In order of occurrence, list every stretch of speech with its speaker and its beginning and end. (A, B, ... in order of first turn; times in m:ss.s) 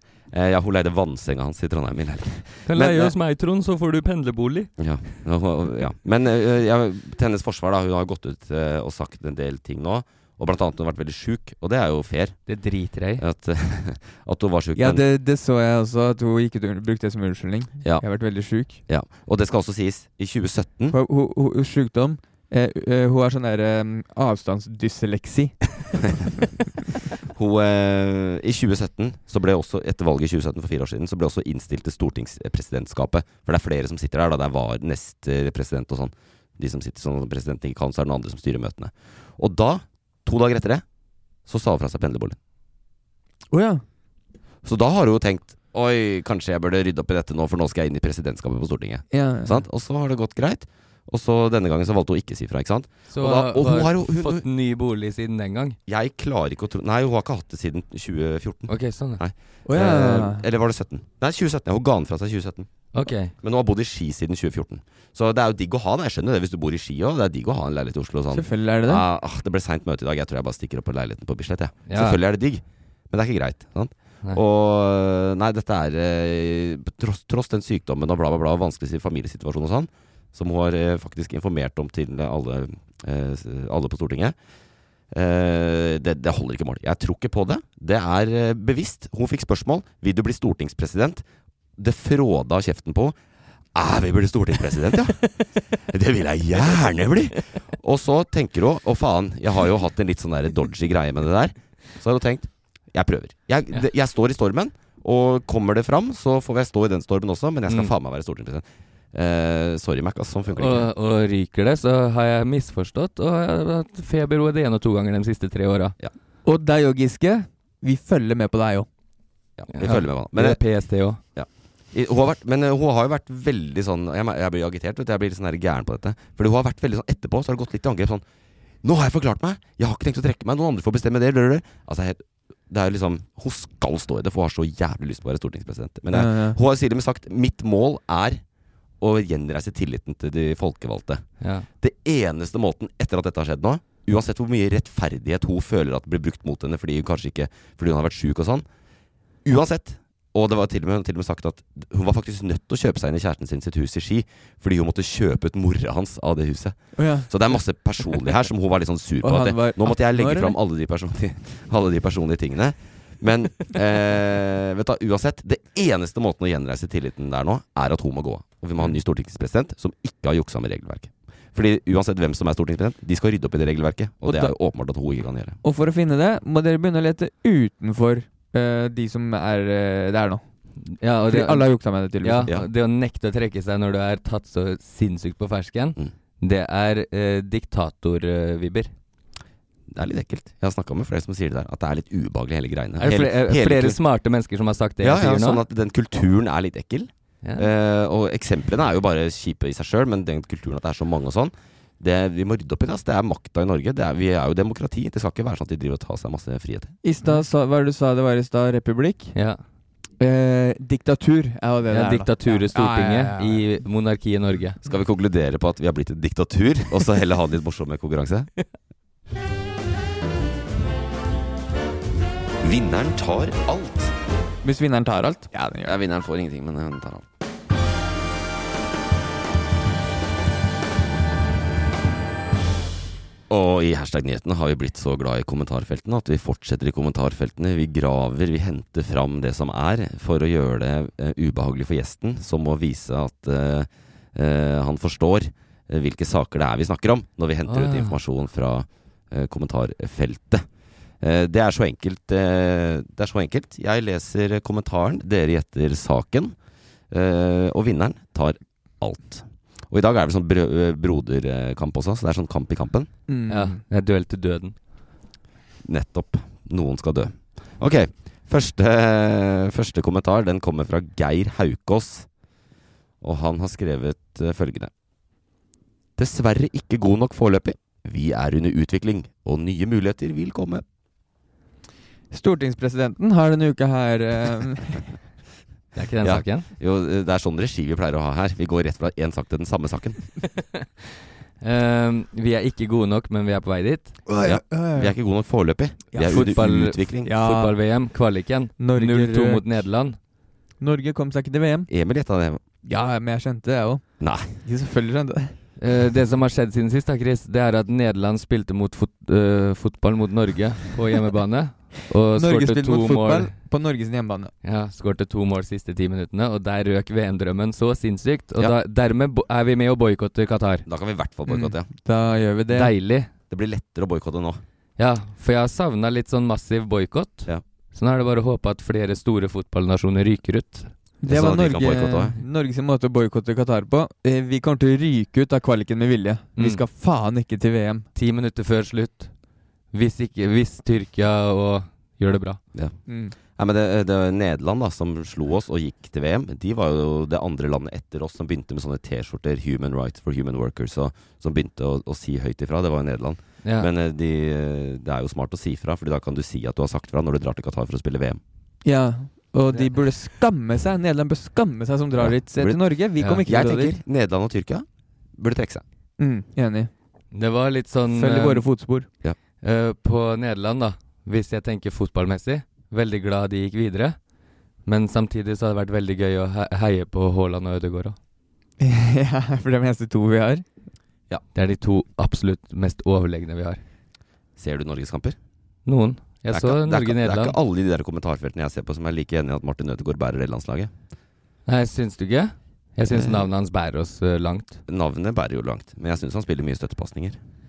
0:00.3-0:02.9 A
0:02.6-0:04.7 B
0:02.8-0:03.1 C
0:04.8-0:12.4 A
0:12.5-0:13.2 B
0:13.2-0:15.0 A
0:14.8-0:18.8 C
0:18.9-0:21.0 A
0:20.9-0:25.8 C
0:27.3-0:40.8 A
0:41.4-0:42.4 A
0:43.5-0:43.8 C
0:44.6-0:54.4 A
0:49.1-0:49.6 C
0:53.1-0:55.8 B
0:55.9-1:24.4 A
0:58.7-0:59.2 B
0:59.6-1:00.4 C
1:02.9-1:03.3 B
1:08.3-1:09.0 C
1:11.9-1:12.2 B
1:25.1-1:31.2 A
1:31.8-1:33.2 A
1:33.7-1:50.9 A
1:50.6-1:56.0 B
1:56.4-1:58.9 C
1:59.6-2:00.6 A
1:59.7-2:01.2 B
2:01.4-2:08.2 A
2:08.8-2:18.4 A
2:16.1-2:16.6 C
2:19.0-2:21.2 A
2:21.4-2:21.6 B
2:21.8-2:28.6 A
2:29.4-2:55.6 A
2:37.0-2:37.3 C
2:39.2-2:40.5 C
2:54.2-2:54.5 C
2:55.6-3:00.4 C
3:01.0-3:08.9 B
3:01.3-3:02.5 C
3:09.9-3:14.0 A
3:13.0-3:15.6 B
3:15.0-3:26.9 A
3:27.0-3:29.4 C
3:29.3-3:29.6 B
3:30.2-3:33.7 C
3:31.9-3:34.8 B
3:34.8-3:38.5 A
3:42.6-3:44.1 A
3:44.6-3:46.0 C
3:45.8-3:47.2 A
3:53.5-4:10.6 A
4:07.7-4:08.2 B
4:11.2-4:16.6 A
4:17.1-4:23.1 A
4:23.3-4:23.8 C
4:23.5-4:24.8 B
4:25.8-4:32.3 A
4:33.2-4:34.9 A
4:36.2-4:40.8 A
4:42.3-4:45.1 C
4:45.9-4:46.7 B
4:46.2-4:50.2 A
4:51.6-4:54.2 B
4:54.3-4:55.1 C
4:54.4-4:57.3 A
4:56.1-4:56.4 C
4:56.2-5:00.2 B
4:57.2-4:57.7 C
4:58.8-4:59.8 C
5:00.8-5:01.9 C
5:01.9-5:02.6 A
5:02.8-5:05.6 C
5:04.2-5:04.6 A
5:05.8-5:13.5 B
5:12.3-5:14.5 C
5:14.6-5:20.9 B
5:20.8-5:21.9 A
5:21.5-5:22.9 C
5:22.7-5:23.3 B
5:23.5-5:24.6 A
5:25.0-5:30.9 B
5:31.2-5:38.1 C
5:31.3-5:32.4 A
5:36.6-5:36.8 B
5:38.1-5:39.3 B
5:39.9-5:42.6 B
5:42.7-5:58.4 A
5:43.1-5:43.4 C
5:53.6-5:53.9 B
5:58.8-6:03.9 C
6:02.2-6:05.8 A
6:06.2-6:06.9 C
6:07.3-6:08.7 B
6:08.1-6:09.1 C
6:09.6-6:14.2 B
6:14.8-6:18.2 B
6:18.8-6:20.6 C
6:21.5-6:23.8 B
6:24.6-6:25.4 A
6:25.9-6:27.6 B
6:26.5-6:30.9 A
6:31.6-6:34.8 B
6:33.1-6:33.5 A
6:34.9-6:37.4 A